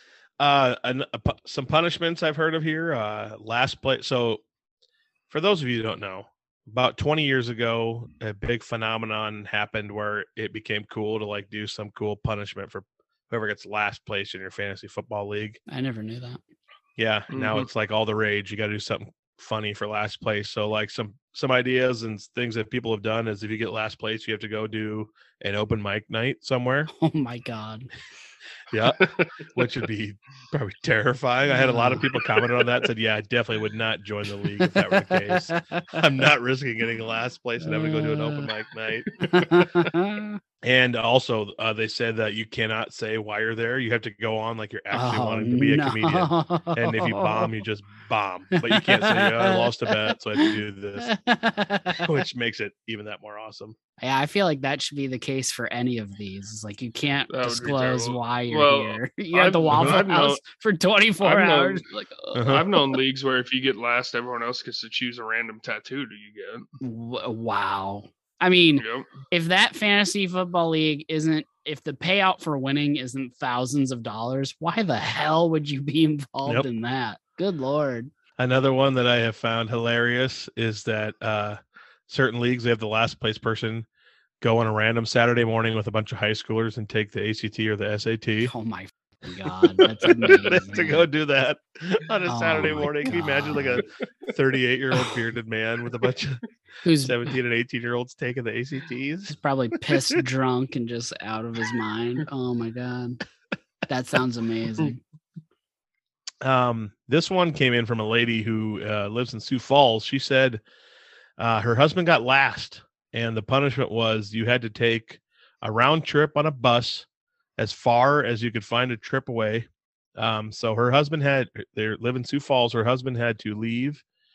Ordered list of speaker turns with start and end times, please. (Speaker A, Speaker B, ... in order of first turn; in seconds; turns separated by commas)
Speaker A: 0.4-4.4, Speaker A: 5.3-15.6, Speaker B: 15.7-16.4, Speaker A: 17.0-26.9, Speaker C: 17.3-17.7, Speaker B: 26.9-27.9, Speaker A: 28.7-39.1, Speaker C: 29.0-29.3, Speaker B: 31.5-32.1, Speaker B: 34.7-36.0, Speaker B: 37.6-38.5, Speaker B: 39.2-40.4, Speaker A: 40.6-51.1, Speaker B: 44.9-47.5, Speaker B: 48.5-52.1, Speaker A: 52.0-53.8, Speaker B: 54.0-62.8, Speaker C: 57.3-60.4, Speaker A: 59.7-60.0, Speaker C: 61.2-61.8, Speaker A: 62.4-62.7, Speaker C: 62.4-66.7, Speaker B: 66.8-78.1, Speaker C: 68.8-69.1, Speaker A: 78.4-83.9, Speaker A: 84.4-88.5, Speaker B: 88.4-91.1, Speaker A: 89.7-96.4, Speaker B: 92.3-93.8, Speaker B: 96.8-97.2, Speaker A: 97.0-99.3, Speaker B: 99.3-103.2, Speaker A: 99.9-100.2, Speaker B: 103.9-105.0, Speaker A: 106.4-110.6, Speaker A: 111.4-117.1, Speaker A: 117.6-124.0